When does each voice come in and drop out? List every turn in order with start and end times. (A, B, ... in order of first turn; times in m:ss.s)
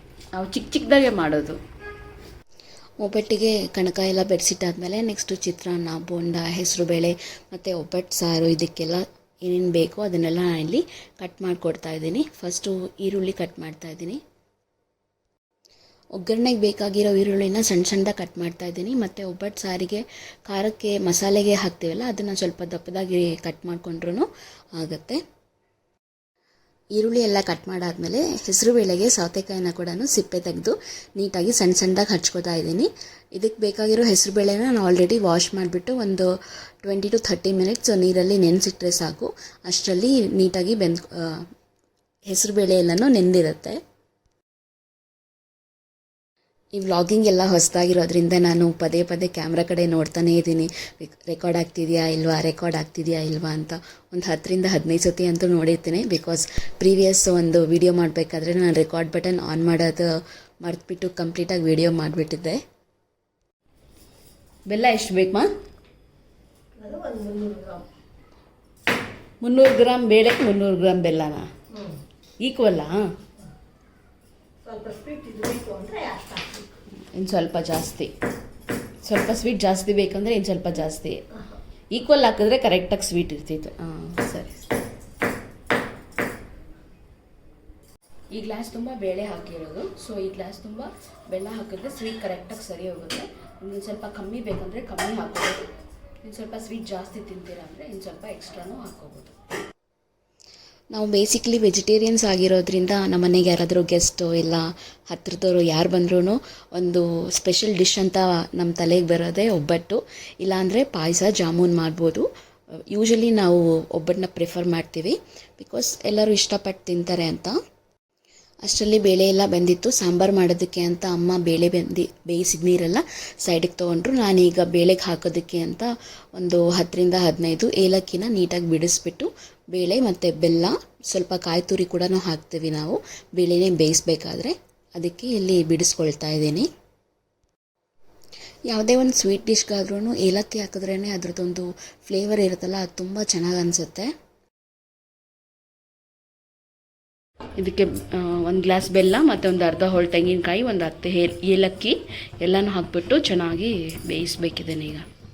0:00.4-0:01.6 A
0:03.0-0:14.2 B
0:16.1-0:25.2 B
0:27.0-0:36.3 B
0:36.8-0:41.4 B
0:42.3-0:43.8 B
0:46.8-1:00.1 B
1:00.6-1:02.6 B
1:04.7-1:05.4 A
1:06.8-1:07.8 C
1:09.4-1:11.4 A
1:12.4-1:12.9 A
1:14.6-1:16.7 C
1:17.2-1:18.1 A
1:19.0-1:21.2 A
1:21.9-1:24.4 A
1:28.3-1:35.6 A
1:36.2-1:39.3 A
1:40.9-1:52.2 B
1:52.9-1:57.5 B
1:58.6-2:16.7 B
2:18.7-2:24.1 B
2:27.6-2:35.0 A